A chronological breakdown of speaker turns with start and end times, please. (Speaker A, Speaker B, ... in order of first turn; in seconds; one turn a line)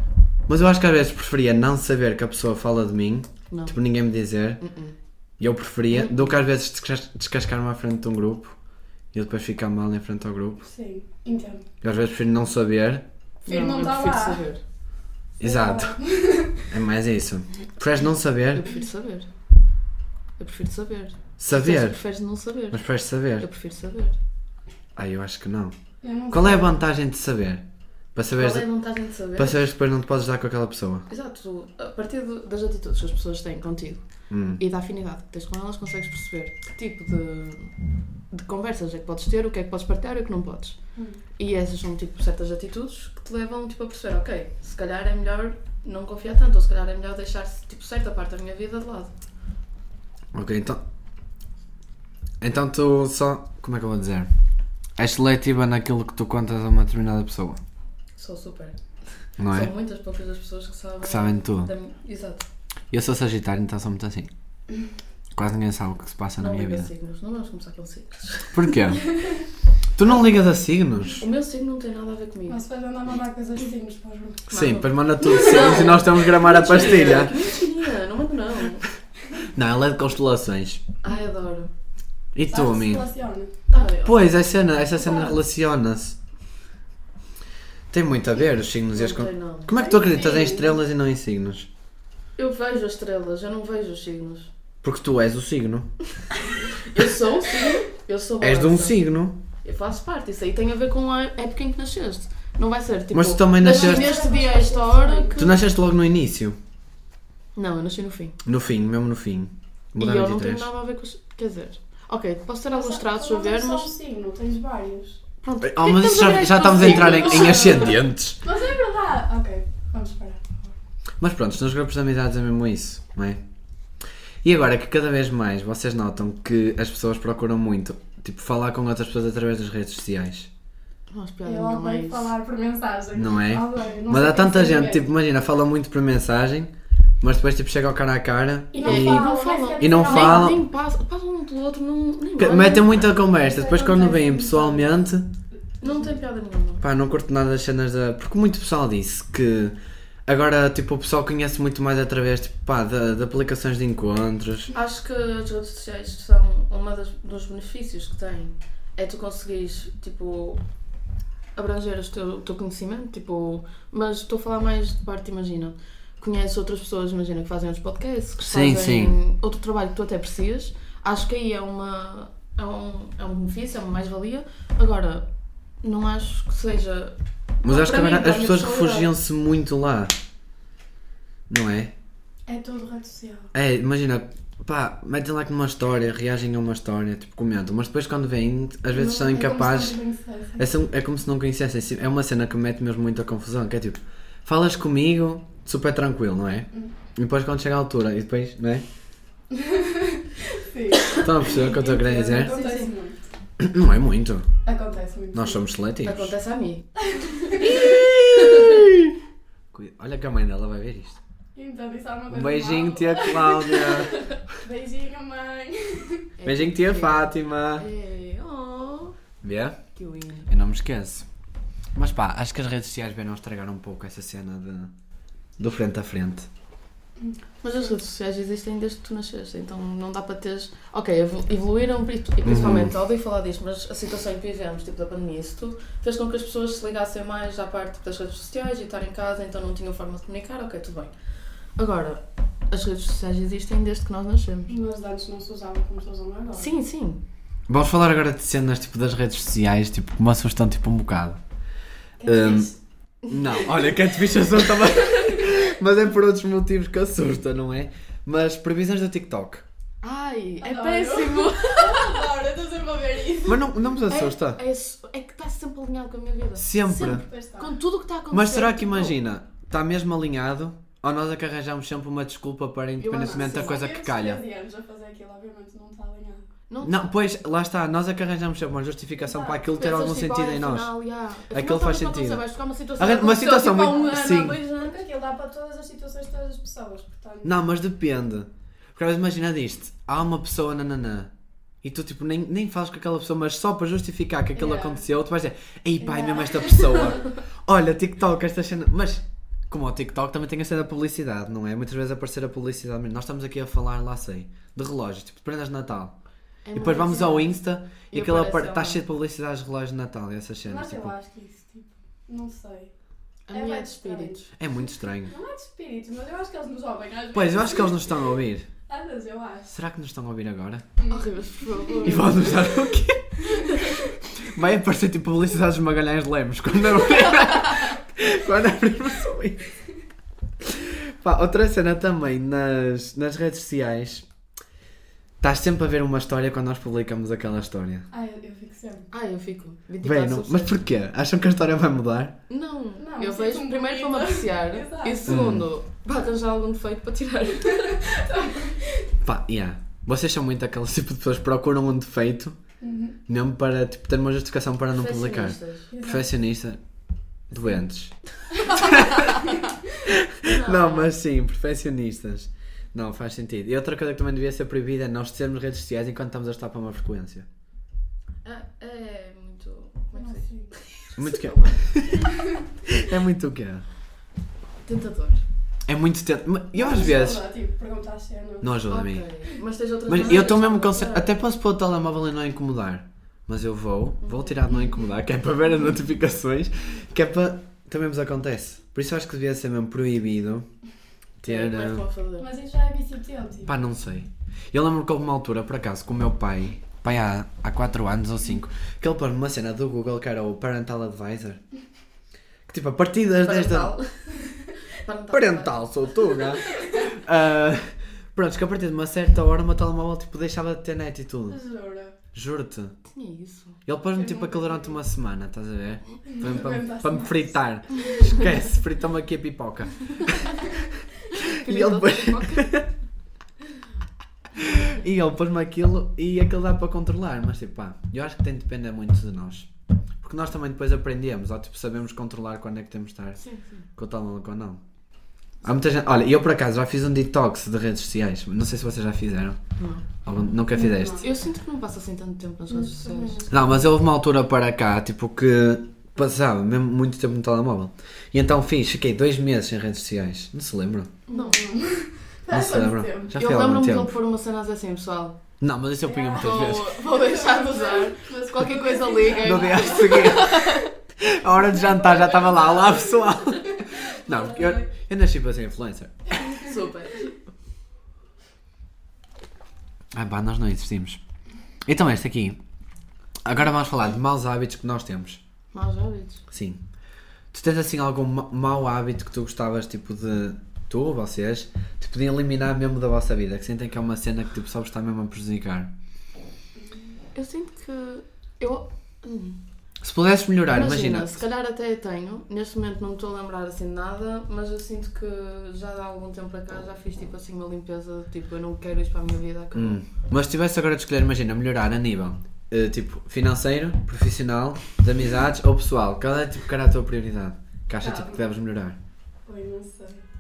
Speaker A: 0.5-4.6
Speaker B: 4.6-5.0
Speaker A: 5.4-8.6
Speaker B: 5.9-6.3
Speaker A: 9.1-10.7
Speaker C: 10.6-11.7
Speaker A: 11.8-13.0
Speaker B: 13.4-14.6
Speaker C: 13.5-14.4
Speaker A: 15.4-16.0
Speaker C: 15.4-16.7
Speaker A: 16.6-18.6
Speaker B: 18.5-19.3
Speaker B: 20.4-22.8
Speaker A: 21.4-22.0
Speaker A: 22.7-23.5
Speaker B: 23.4-24.2
Speaker A: 25.0-25.8
Speaker C: 26.0-26.8
Speaker A: 26.3-28.7
Speaker B: 28.3-29.6
Speaker A: 29.4-31.1
Speaker B: 31.1-34.0
Speaker A: 34.3-34.6
Speaker B: 34.6-37.7
Speaker B: 38.3-40.8
Speaker C: 41.0-41.2
Speaker B: 41.4-49.1
Speaker A: 50.3-50.8
Speaker A: 52.4-54.3
Speaker A: 55.0-57.6
Speaker B: 58.2-58.8
Speaker A: 59.4-59.7
Speaker B: 59.5-62.5
Speaker A: 61.0-61.7
Speaker A: 62.9-64.3
Speaker A: 65.3-66.9
Speaker B: 66.4-68.7
Speaker A: 68.5-69.0
Speaker A: 70.0-71.2
Speaker B: 71.2-72.6
Speaker C: 72.5-74.5
Speaker B: 74.5-78.8
Speaker A: 74.5-77.5
Speaker C: 75.3-76.0
Speaker A: 79.4-80.8
Speaker B: 81.0-81.7
Speaker A: 82.3-83.1
Speaker C: 82.5-83.5
Speaker B: 83.7-84.3
Speaker A: 84.0-86.2
Speaker C: 85.0-85.4
Speaker A: 87.9-91.7
Speaker B: 88.9-89.9
Speaker C: 89.7-90.8
Speaker B: 92.4-94.5
Speaker A: 94.8-95.9
Speaker B: 96.6-99.0
Speaker A: 98.4-99.3
Speaker B: 99.6-105.5
Speaker A: 103.1-104.2
Speaker C: 103.6-105.5
Speaker A: 105.4-106.6
Speaker B: 107.6-108.4
Speaker A: 108.4-110.7
Speaker B: 110.0-113.9
Speaker C: 112.7-115.2
Speaker B: 115.4-118.0
Speaker A: 115.6-118.4
Speaker C: 116.9-117.6
Speaker C: 118.4-120.7
Speaker A: 121.2-123.4
Speaker A: 124.4-130.5
Speaker B: 131.1-132.3
Speaker C: 131.4-135.0
Speaker A: 133.1-139.3
Speaker C: 138.7-140.6
Speaker B: 138.8-143.2
Speaker A: 139.8-140.6
Speaker A: 142.4-145.3
Speaker C: 143.3-145.0
Speaker B: 145.8-146.8
Speaker C: 145.8-146.2
Speaker A: 146.8-154.7
Speaker B: 154.7-160.6
Speaker B: 161.5-175.3
Speaker A: 168.4-169.2
Speaker B: 175.8-179.1
Speaker A: 177.6-180.1
Speaker A: 181.5-181.9
Speaker C: 182.5-183.5
Speaker A: 183.5-190.0
Speaker C: 188.9-190.7
Speaker A: 190.6-198.8
Speaker C: 199.5-203.2
Speaker A: 201.1-202.5
Speaker B: 202.3-202.9
Speaker A: 203.6-204.5
Speaker C: 204.7-205.6
Speaker A: 205.3-206.3
Speaker B: 206.0-208.8
Speaker C: 207.1-208.0
Speaker A: 207.6-209.2
Speaker A: 209.7-211.2
Speaker C: 211.5-216.3
Speaker A: 212.3-214.2
Speaker B: 216.4-219.2
Speaker A: 216.5-217.8
Speaker A: 219.4-219.8
Speaker B: 219.9-220.5
Speaker A: 220.5-221.3
Speaker A: 221.9-224.9
Speaker A: 225.6-226.5
Speaker C: 227.2-227.9
Speaker B: 227.6-241.1
Speaker A: 232.4-232.9
Speaker B: 241.8-244.7
Speaker C: 244.7-246.7
Speaker B: 246.5-247.2
Speaker A: 247.7-251.4
Speaker C: 252.2-252.8
Speaker A: 252.2-252.7
Speaker A: 253.3-259.6
Speaker B: 260.0-262.3
Speaker C: 260.6-263.7
Speaker A: 263.4-264.6
Speaker B: 264.1-269.1
Speaker A: 266.6-267.2
Speaker C: 267.0-267.7
Speaker A: 268.3-274.4
Speaker B: 273.0-273.8
Speaker C: 273.1-276.5
Speaker B: 276.7-277.1
Speaker A: 276.8-280.9
Speaker C: 279.2-279.6
Speaker B: 279.8-285.0
Speaker A: 281.5-282.4
Speaker A: 283.0-284.6
Speaker C: 284.2-287.6
Speaker A: 287.4-291.3
Speaker A: 291.8-306.1
Speaker C: 294.6-295.0
Speaker C: 296.0-297.2
Speaker B: 306.6-307.6
Speaker A: 306.8-311.1
Speaker C: 306.9-307.3
Speaker B: 308.1-309.0
Speaker C: 310.6-312.9
Speaker B: 313.5-314.5
Speaker C: 313.5-314.5
Speaker A: 314.6-315.3
Speaker C: 315.2-318.2
Speaker A: 317.3-318.7
Speaker C: 318.9-319.7
Speaker A: 319.7-320.9
Speaker C: 321.0-322.6
Speaker B: 321.1-322.7
Speaker A: 322.0-329.6
Speaker C: 323.6-323.9
Speaker A: 330.6-334.3
Speaker A: 335.4-338.1
Speaker C: 338.1-339.1
Speaker B: 339.1-340.8
Speaker A: 340.0-342.4
Speaker B: 342.5-348.2
Speaker C: 343.0-345.4
Speaker A: 345.3-345.7
Speaker C: 348.0-349.1
Speaker A: 349.2-352.6
Speaker C: 352.8-353.2
Speaker A: 353.3-356.8
Speaker B: 354.9-355.9
Speaker C: 355.9-356.2
Speaker A: 357.5-359.4
Speaker A: 360.1-367.5
Speaker B: 360.5-361.1
Speaker B: 368.4-371.7
Speaker C: 370.1-370.7
Speaker A: 371.2-372.3
Speaker A: 372.9-373.9
Speaker B: 374.9-375.4
Speaker A: 375.9-377.4
Speaker C: 376.7-378.7
Speaker A: 378.6-379.2
Speaker B: 378.9-381.3
Speaker A: 380.1-390.7
Speaker B: 384.2-384.6
Speaker A: 391.4-392.0
Speaker B: 391.4-392.5
Speaker C: 392.4-393.7
Speaker A: 393.7-401.6
Speaker A: 402.7-403.9
Speaker B: 403.4-407.0
Speaker A: 405.3-411.6
Speaker C: 411.5-412.1
Speaker A: 412.3-413.0
Speaker B: 413.1-413.8
Speaker A: 413.9-422.9
Speaker C: 414.1-415.0
Speaker C: 416.3-418.2
Speaker B: 421.3-422.7
Speaker A: 424.6-429.7
Speaker A: 430.2-433.4
Speaker B: 433.4-433.9
Speaker A: 434.0-434.8
Speaker A: 435.6-439.6
Speaker B: 439.8-440.1
Speaker A: 440.2-441.2
Speaker C: 440.7-441.3
Speaker B: 441.2-443.5
Speaker C: 442.7-443.7
Speaker A: 443.5-451.1
Speaker C: 451.3-453.3
Speaker B: 451.3-451.7
Speaker A: 452.5-454.1
Speaker B: 453.4-455.4
Speaker A: 455.6-457.0
Speaker C: 456.1-460.7
Speaker B: 456.4-460.9
Speaker A: 459.4-466.1
Speaker C: 461.8-464.9
Speaker B: 466.4-467.4
Speaker A: 470.1-471.2
Speaker A: 471.9-472.6
Speaker A: 473.4-475.4
Speaker B: 475.7-476.4
Speaker A: 476.5-476.8
Speaker A: 477.5-485.9
Speaker B: 487.4-489.6
Speaker A: 490.0-491.4
Speaker B: 490.7-500.0
Speaker A: 499.7-509.0
Speaker C: 508.0-508.4
Speaker C: 509.5-510.2